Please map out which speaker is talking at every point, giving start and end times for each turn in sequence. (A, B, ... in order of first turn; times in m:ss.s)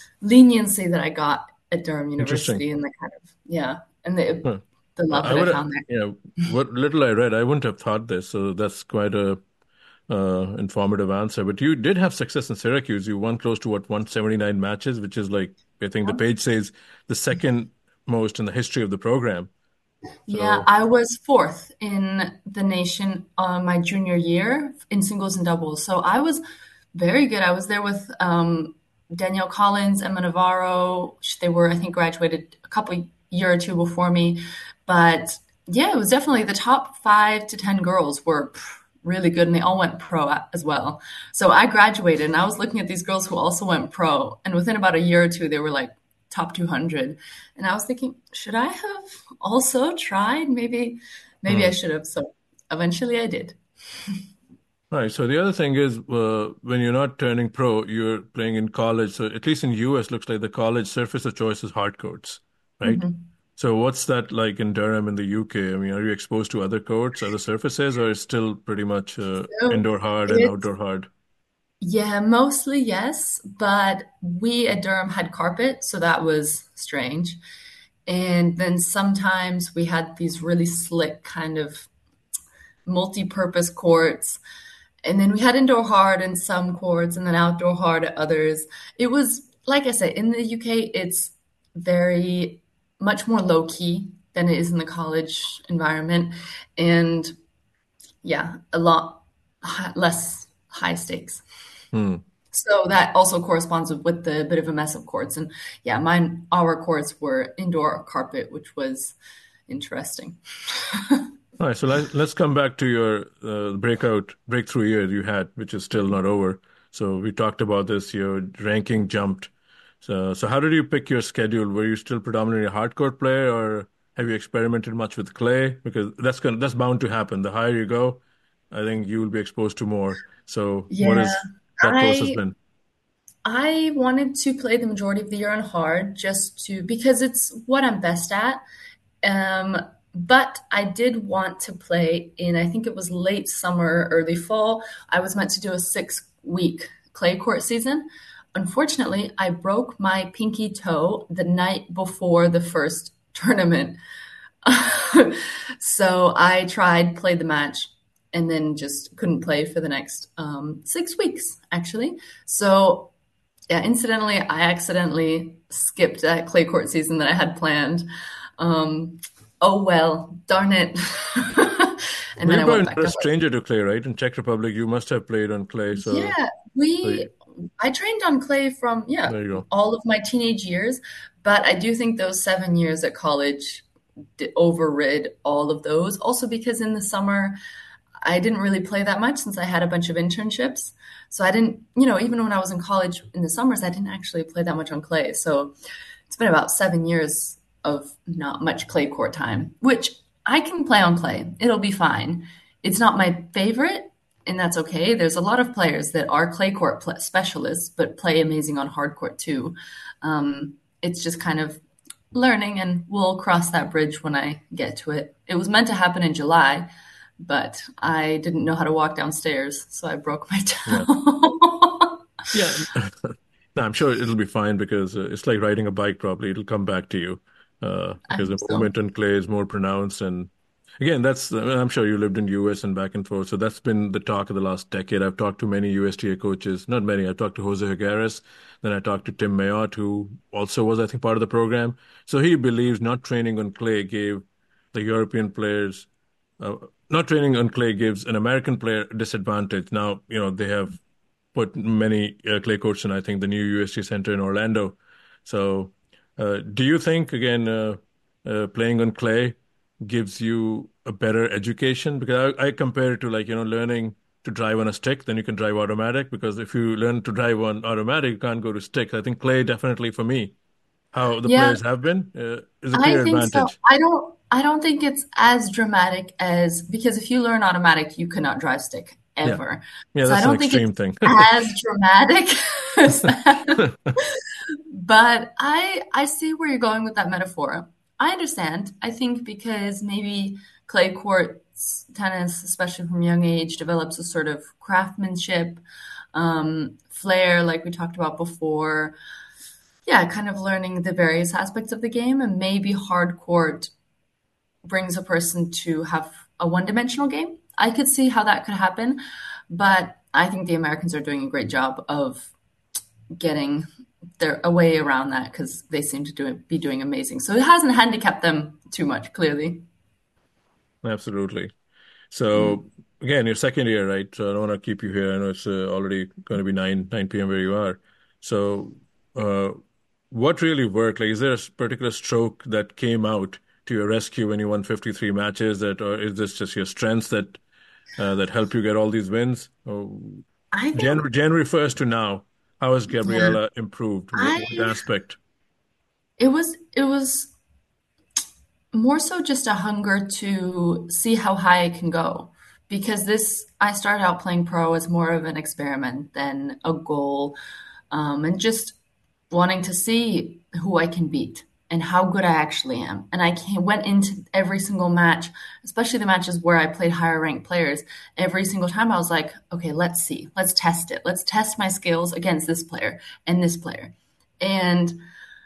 0:00.2-0:05.9 A
0:02.2-0:02.6 B
0:04.4-0:09.4 B
0:10.1-0:19.5 B
0:20.3-0:26.4 A
0:20.3-0:20.7 B
0:26.9-0:53.6 A
0:51.5-0:51.8 B
0:54.9-1:03.0 B
1:02.8-1:03.2 A
1:03.6-1:11.1 B
1:09.5-1:10.6 A
1:11.8-1:17.4 A
1:18.1-1:21.9 A
1:22.9-1:24.4 A
1:25.0-1:37.3 A
1:38.2-1:41.4 A
1:41.9-1:42.2 B
1:42.5-1:49.2 A
1:49.7-1:51.2 A
1:51.6-1:59.5 B
2:00.0-2:12.6 B
2:10.9-2:12.4 A
2:13.4-2:18.6 A
2:19.2-2:34.0 A
2:34.6-2:43.1 A
2:43.7-2:48.1 A
2:48.6-2:53.3 A
2:52.4-2:56.4 B
2:56.0-3:03.8 A
2:59.3-2:59.6 B
3:04.4-3:07.6 A
3:08.2-3:15.7 A
3:16.3-3:31.8 A
3:32.3-3:36.9 A
3:37.4-3:42.1 A
3:42.5-4:06.1 B
3:48.3-3:48.9 A
4:06.6-4:11.0 B
4:11.5-4:30.6 B
4:31.1-4:33.8 B
4:31.4-4:31.8 A
4:32.9-4:55.8 A
4:40.2-4:41.5 B
4:43.8-4:44.1 B
4:56.3-4:59.2 A
5:00.1-5:03.9 A
5:04.9-5:12.5 A
5:13.4-5:13.9 A
5:14.4-5:19.8 A
5:21.0-5:21.7 B
5:22.3-5:29.8 B
5:22.5-5:22.8 A
5:30.3-5:37.6 B
5:38.2-5:45.4 B
5:40.7-5:41.2 A
5:43.2-5:43.6 A
5:44.3-5:45.0 A
5:46.4-5:47.6 A
5:48.9-5:57.6 A
5:58.1-5:59.0 A
5:59.5-6:15.2 A